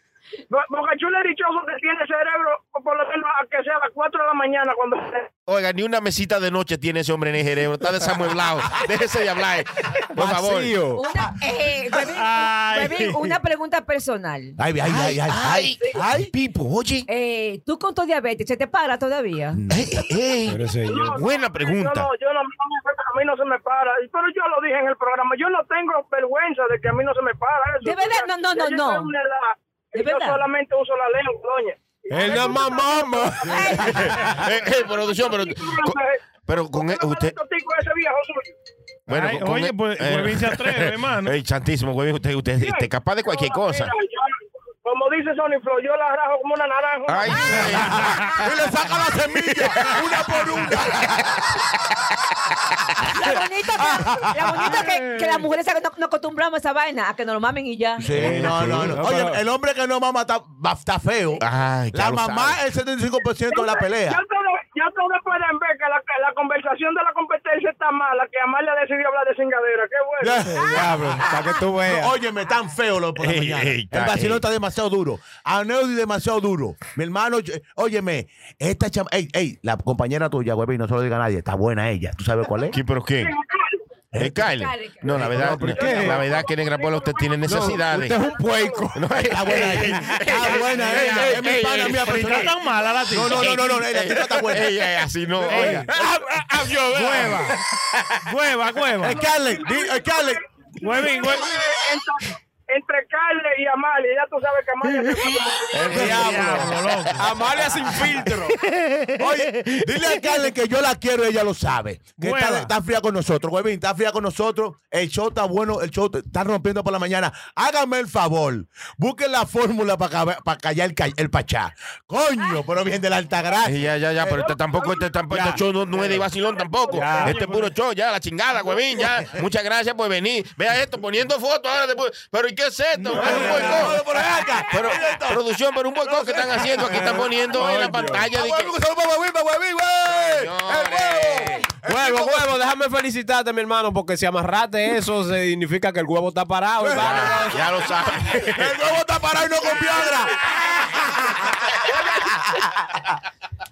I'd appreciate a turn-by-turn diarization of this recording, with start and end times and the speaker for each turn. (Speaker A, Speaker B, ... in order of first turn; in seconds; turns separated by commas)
Speaker A: 0.5-5.3, Speaker B: 5.5-10.8, Speaker C: 10.1-11.0, Speaker D: 10.9-14.6, Speaker E: 12.1-13.4, Speaker F: 14.6-16.3, Speaker B: 14.8-17.1, Speaker D: 17.1-19.6, Speaker F: 19.6-20.0, Speaker B: 19.7-22.1, Speaker C: 20.5-21.1, Speaker A: 20.8-36.2, Speaker D: 27.8-29.1, Speaker D: 29.9-30.4, Speaker C: 32.1-34.1, Speaker D: 33.5-34.0, Speaker B: 33.9-37.4, Speaker A: 36.7-38.5, Speaker B: 39.1-43.9, Speaker E: 39.1-41.3, Speaker A: 42.6-48.0, Speaker B: 47.0-48.7, Speaker F: 47.8-51.6, Speaker B: 49.3-51.3, Speaker D: 53.0-58.1, Speaker F: 53.8-54.7, Speaker C: 54.6-55.4, Speaker F: 58.0-64.2, Speaker B: 58.1-59.0, Speaker C: 58.5-59.4, Speaker B: 61.4-62.6, Speaker A: 63.5-71.1, Speaker F: 70.2-82.8, Speaker C: 70.5-72.1, Speaker B: 73.2-74.4, Speaker B: 82.7-83.3, Speaker A: 83.2-83.8, Speaker F: 84.1-84.5, Speaker B: 84.1-88.2, Speaker D: 84.5-85.1, Speaker F: 85.1-85.7, Speaker C: 85.1-86.2, Speaker A: 85.6-89.0, Speaker C: 87.5-89.0, Speaker B: 88.9-92.5, Speaker F: 89.2-92.5, Speaker C: 91.0-91.5, Speaker E: 92.0-93.5, Speaker F: 93.1-94.7, Speaker B: 93.2-95.9, Speaker C: 95.5-97.5, Speaker E: 95.5-95.8, Speaker E: 96.9-97.5, Speaker B: 97.9-98.2, Speaker E: 98.2-99.2, Speaker F: 99.0-100.4, Speaker A: 99.0-105.9, Speaker E: 100.8-101.5, Speaker C: 105.7-108.6, Speaker B: 105.8-106.6, Speaker F: 105.9-106.7, Speaker E: 106.1-107.3, Speaker B: 108.6-110.3, Speaker F: 109.2-124.6, Speaker E: 112.2-112.7, Speaker B: 123.6-134.0, Speaker C: 125.3-126.3, Speaker A: 126.3-127.1, Speaker C: 126.9-127.3, Speaker E: 127.0-127.7, Speaker E: 132.9-133.9, Speaker C: 133.2-133.8, Speaker F: 133.2-142.5, Speaker B: 134.7-138.7, Speaker C: 137.0-138.3, Speaker B: 140.1-141.7, Speaker C: 141.7-147.7, Speaker F: 146.8-147.6, Speaker B: 146.9-148.7, Speaker F: 148.4-153.0